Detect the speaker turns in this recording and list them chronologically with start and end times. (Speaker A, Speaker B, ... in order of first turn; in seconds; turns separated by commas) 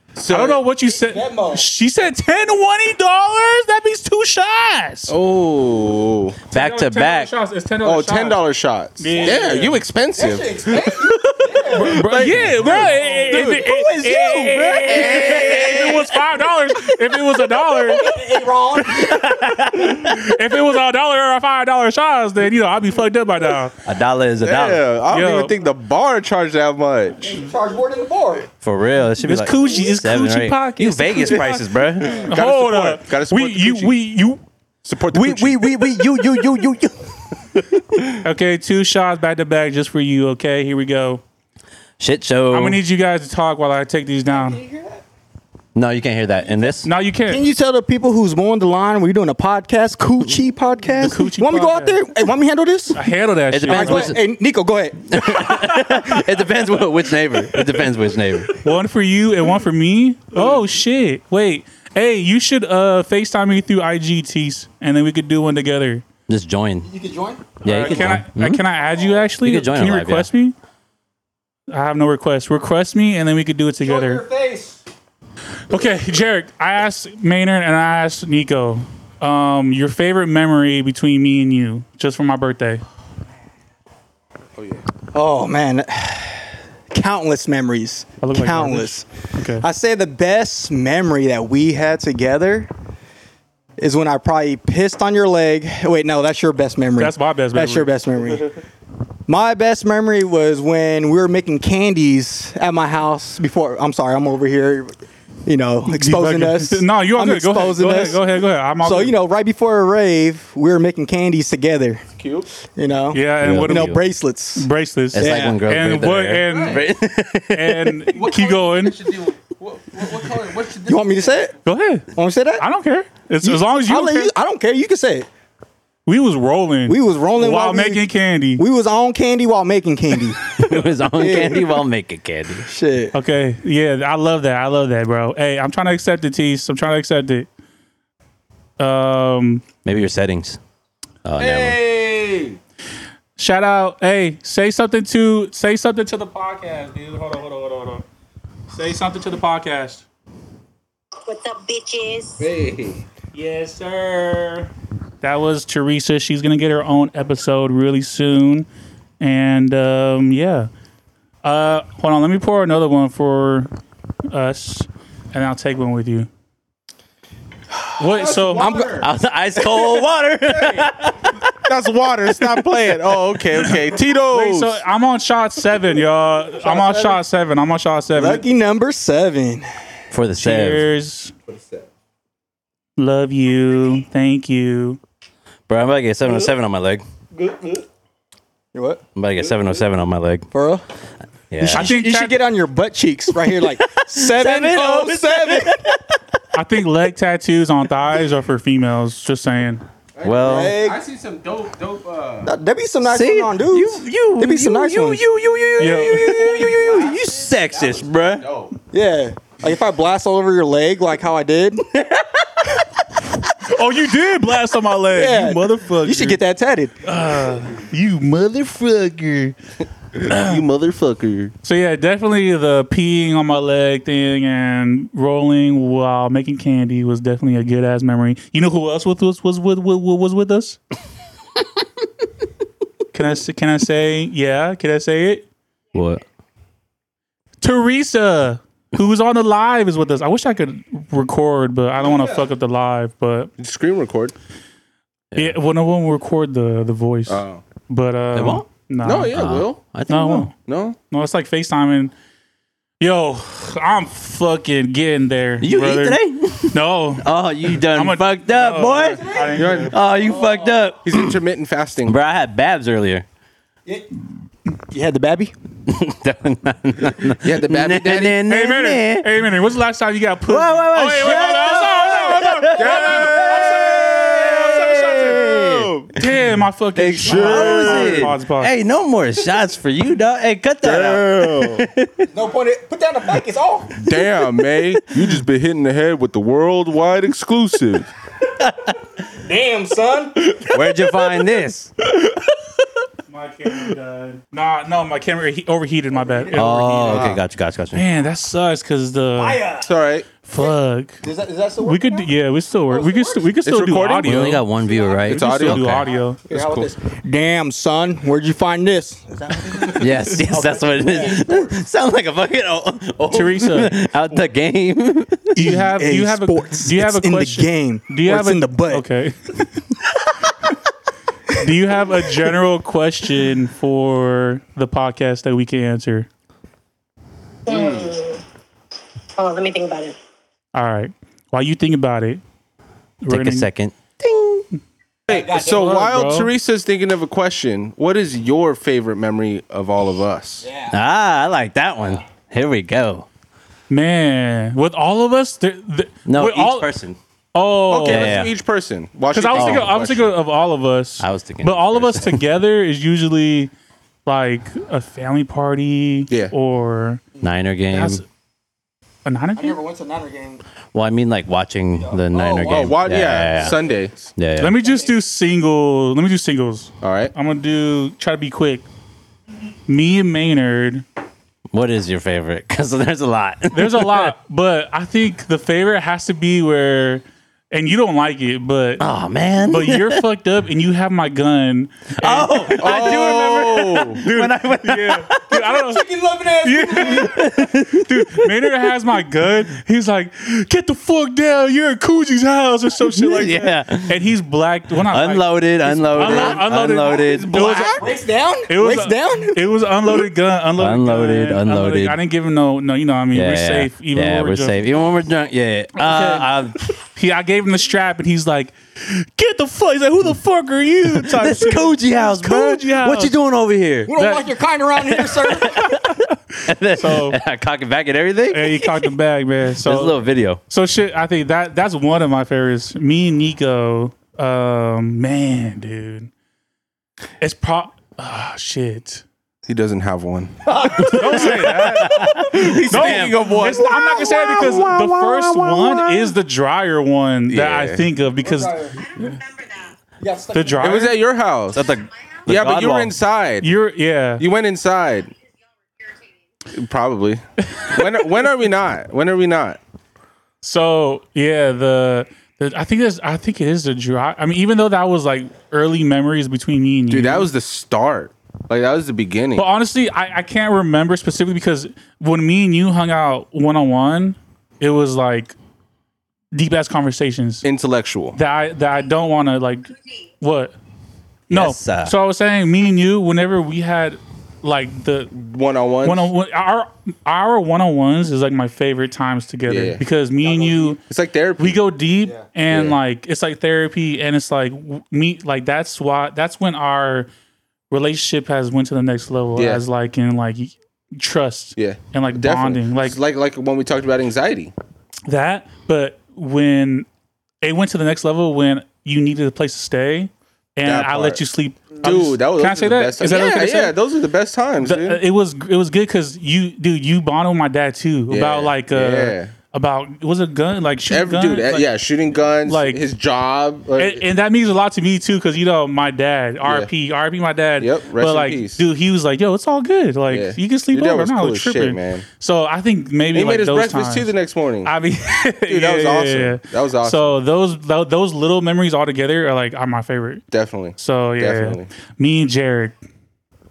Speaker A: 0.1-0.6, Speaker B: 0.3-5.1, Speaker C: 0.9-1.7, Speaker A: 5.1-6.4, Speaker D: 6.5-7.3, Speaker B: 6.5-8.4, Speaker A: 7.8-11.1, Speaker B: 9.0-9.8, Speaker C: 10.2-16.1, Speaker B: 11.4-18.1, Speaker A: 11.7-13.6, Speaker A: 14.8-16.0, Speaker C: 17.1-19.2, Speaker D: 18.9-20.2, Speaker B: 18.9-23.7, Speaker D: 23.8-24.8, Speaker A: 24.4-27.2, Speaker B: 25.1-25.5, Speaker C: 27.2-28.5, Speaker B: 27.2-27.5, Speaker D: 28.6-32.1, Speaker B: 29.2-34.4, Speaker A: 32.0-33.9, Speaker A: 34.8-36.1, Speaker C: 35.1-36.9, Speaker B: 38.2-41.2, Speaker D: 42.0-42.8, Speaker B: 42.5-44.6, Speaker C: 44.3-45.0, Speaker D: 45.7-46.9, Speaker B: 46.8-47.4, Speaker C: 47.3-53.0, Speaker B: 51.0-52.0, Speaker B: 52.9-54.2, Speaker D: 53.5-54.2, Speaker C: 53.7-55.1, Speaker D: 55.1-58.5, Speaker B: 55.5-56.2, Speaker B: 57.5-57.8, Speaker B: 58.5-66.0, Speaker D: 66.3-66.9, Speaker C: 66.8-68.2, Speaker D: 67.6-68.6, Speaker B: 67.6-70.5, Speaker D: 69.4-70.3, Speaker B: 71.7-74.2, Speaker C: 73.8-74.8, Speaker B: 75.7-82.8, Speaker A: 84.6-84.8, Speaker C: 85.1-89.1, Speaker B: 88.2-89.7, Speaker C: 89.6-92.7, Speaker C: 93.8-98.5, Speaker B: 97.0-97.9, Speaker C: 99.3-104.9, Speaker C: 105.5-108.2, Speaker B: 105.8-109.2, Speaker C: 108.8-112.0, Speaker A: 112.2-112.5, Speaker C: 112.7-115.6, Speaker B: 113.1-114.0, Speaker D: 113.4-114.0, Speaker B: 114.5-116.8, Speaker D: 115.1-118.1, Speaker A: 116.5-116.8, Speaker B: 117.5-119.0, Speaker A: 118.1-121.3, Speaker C: 120.8-121.5, Speaker B: 121.6-124.3, Speaker C: 122.1-122.6, Speaker C: 123.4-125.3, Speaker B: 126.0-128.6, Speaker C: 126.9-131.8, Speaker D: 130.6-132.7, Speaker C: 132.6-133.1, Speaker B: 133.1-137.5, Speaker B: 138.8-139.6, Speaker D: 139.8-140.6, Speaker D: 141.2-141.8, Speaker A: 141.4-142.6, Speaker B: 143.4-148.0, Speaker B: 148.7-150.0, Speaker E: 151.2-152.5, Speaker A: 152.4-153.0, Speaker B: 153.3-154.7, Speaker B: 155.2-158.7, Speaker B: 159.2-160.7, Speaker B: 161.4-163.7, Speaker B: 164.3-166.3, Speaker B: 168.0-168.8, Speaker C: 168.1-169.1, Speaker A: 168.6-168.9, Speaker D: 169.0-171.5, Speaker A: 171.6-174.8, Speaker B: 174.3-178.4, Speaker C: 176.6-177.2, Speaker C: 178.1-179.7, Speaker D: 180.1-180.9, Speaker B: 180.4-181.3, Speaker A: 181.5-181.8, Speaker B: 183.0-185.0, Speaker D: 185.7-187.0, Speaker C: 188.7-189.0, Speaker D: 189.1-190.5, Speaker C: 190.5-190.8, Speaker D: 191.5-191.9, Speaker C: 191.6-195.9, Speaker B: 191.7-192.4, Speaker D: 193.4-196.0, Speaker B: 196.5-199.8, Speaker A: 200.1-202.5, Speaker D: 200.2-200.8, Speaker C: 200.4-201.0, Speaker C: 202.4-205.2, Speaker D: 203.0-208.5, Speaker B: 205.8-206.4, Speaker A: 205.8-208.8, Speaker C: 208.9-211.8, Speaker D: 211.9-212.7, Speaker B: 213.6-216.4, Speaker C: 215.1-216.9, Speaker B: 217.0-219.6, Speaker B: 220.2-220.6, Speaker A: 220.2-221.5, Speaker B: 221.6-230.8, Speaker B: 233.1-235.5, Speaker D: 235.9-236.2, Speaker B: 237.6-243.5, Speaker A: 243.6-244.3, Speaker B: 245.3-249.3, Speaker A: 247.3-247.6, Speaker D: 248.3-248.7, Speaker A: 249.0-249.8, Speaker D: 249.3-250.5, Speaker B: 250.1-250.5, Speaker A: 250.7-251.0, Speaker B: 251.1-252.1, Speaker B: 253.0-259.9, Speaker D: 255.6-259.3, Speaker C: 259.1-260.8, Speaker A: 259.5-260.0, Speaker D: 259.9-261.4, Speaker A: 261.0-262.2, Speaker D: 262.0-263.2, Speaker C: 264.9-265.5, Speaker D: 265.9-269.3, Speaker A: 267.4-268.4, Speaker B: 268.5-275.1, Speaker D: 270.5-276.1, Speaker A: 272.7-275.9, Speaker C: 273.4-275.5, Speaker B: 276.1-278.7, Speaker D: 276.9-282.3, Speaker A: 277.2-278.3, Speaker A: 280.8-281.9, Speaker C: 282.3-284.1, Speaker A: 284.0-288.1, Speaker D: 288.6-288.9, Speaker C: 289.3-290.5, Speaker D: 290.6-291.9, Speaker B: 293.3-297.4, Speaker C: 296.1-296.5, Speaker D: 296.5-298.1, Speaker A: 297.1-297.4, Speaker B: 297.9-299.6, Speaker C: 299.4-299.9, Speaker A: 299.8-300.3, Speaker B: 300.4-301.2, Speaker C: 301.2-302.3, Speaker B: 301.8-304.6, Speaker C: 302.9-303.5, Speaker A: 303.6-304.6, Speaker D: 304.2-306.6, Speaker C: 304.9-305.2, Speaker A: 305.2-306.9, Speaker B: 305.3-306.4, Speaker C: 306.4-311.8, Speaker D: 309.8-315.7, Speaker B: 313.3-314.0, Speaker C: 315.6-319.0, Speaker B: 315.6-319.7, Speaker B: 321.5-326.3, Speaker E: 327.7-328.4, Speaker A: 327.7-328.1, Speaker E: 329.4-330.2, Speaker B: 330.7-332.4, Speaker B: 333.2-333.7, Speaker D: 333.3-334.6, Speaker A: 335.3-340.7, Speaker C: 335.3-335.8, Speaker B: 335.3-336.5, Speaker C: 340.6-340.9, Speaker D: 340.9-343.3, Speaker B: 343.9-346.9, Speaker D: 346.2-347.2, Speaker B: 347.5-348.4, Speaker A: 347.9-350.3, Speaker D: 348.0-348.5, Speaker B: 349.3-353.7, Speaker D: 349.5-349.9, Speaker D: 351.2-352.4, Speaker B: 354.2-357.2, Speaker D: 357.4-358.2, Speaker B: 357.9-358.2, Speaker B: 359.2-359.8, Speaker C: 359.6-360.6, Speaker D: 360.9-363.8, Speaker C: 362.0-363.0, Speaker A: 362.6-364.3, Speaker D: 364.4-364.8, Speaker B: 364.6-368.8, Speaker A: 367.0-367.3, Speaker B: 369.9-371.0, Speaker D: 371.7-374.3, Speaker B: 373.7-379.0, Speaker D: 379.0-380.2, Speaker B: 379.6-398.1, Speaker D: 382.2-385.6, Speaker A: 382.8-384.2, Speaker C: 385.7-387.4, Speaker D: 387.1-388.7, Speaker D: 393.1-394.1, Speaker D: 395.0-397.9, Speaker C: 396.2-396.6, Speaker C: 397.5-399.7, Speaker B: 398.7-404.8, Speaker D: 400.8-402.2, Speaker D: 403.3-406.8, Speaker B: 405.9-413.4, Speaker D: 411.1-414.1, Speaker C: 414.1-415.9, Speaker B: 414.1-414.6, Speaker D: 415.0-419.1, Speaker B: 415.6-416.2, Speaker B: 416.9-417.4, Speaker B: 418.5-426.3, Speaker D: 419.8-420.6, Speaker B: 427.4-429.2, Speaker A: 429.7-436.3, Speaker C: 430.7-431.4, Speaker B: 431.0-438.9, Speaker D: 431.0-433.5, Speaker A: 437.5-438.1, Speaker C: 438.4-439.0, Speaker E: 439.0-440.0, Speaker C: 440.2-440.9, Speaker B: 440.5-441.1, Speaker A: 440.8-441.9, Speaker D: 441.7-443.1, Speaker A: 442.5-443.7, Speaker B: 443.6-444.4, Speaker A: 444.4-445.3, Speaker E: 446.0-446.2, Speaker A: 446.7-449.8, Speaker B: 447.8-448.1, Speaker B: 450.6-457.5, Speaker A: 457.1-459.6, Speaker B: 459.6-465.5, Speaker B: 466.5-467.6, Speaker A: 467.6-468.4, Speaker B: 468.3-470.7, Speaker D: 471.5-472.1, Speaker B: 471.5-475.3, Speaker A: 475.3-476.3, Speaker B: 476.0-481.0, Speaker A: 479.7-480.0, Speaker A: 481.0-481.8, Speaker B: 481.6-487.3, Speaker A: 482.7-483.0, Speaker B: 487.9-493.2, Speaker A: 489.6-489.8, Speaker A: 491.8-494.7, Speaker B: 495.3-497.1, Speaker B: 497.6-503.9, Speaker A: 500.9-501.4, Speaker A: 502.0-505.2, Speaker B: 504.8-511.9, Speaker A: 508.3-509.5, Speaker A: 511.1-514.2, Speaker B: 512.6-513.0, Speaker B: 514.0-524.3, Speaker A: 516.6-516.9, Speaker A: 517.8-518.8, Speaker A: 520.3-522.2, Speaker A: 523.3-524.9, Speaker B: 524.8-530.4, Speaker A: 525.7-527.4, Speaker A: 530.5-531.9, Speaker B: 531.0-532.9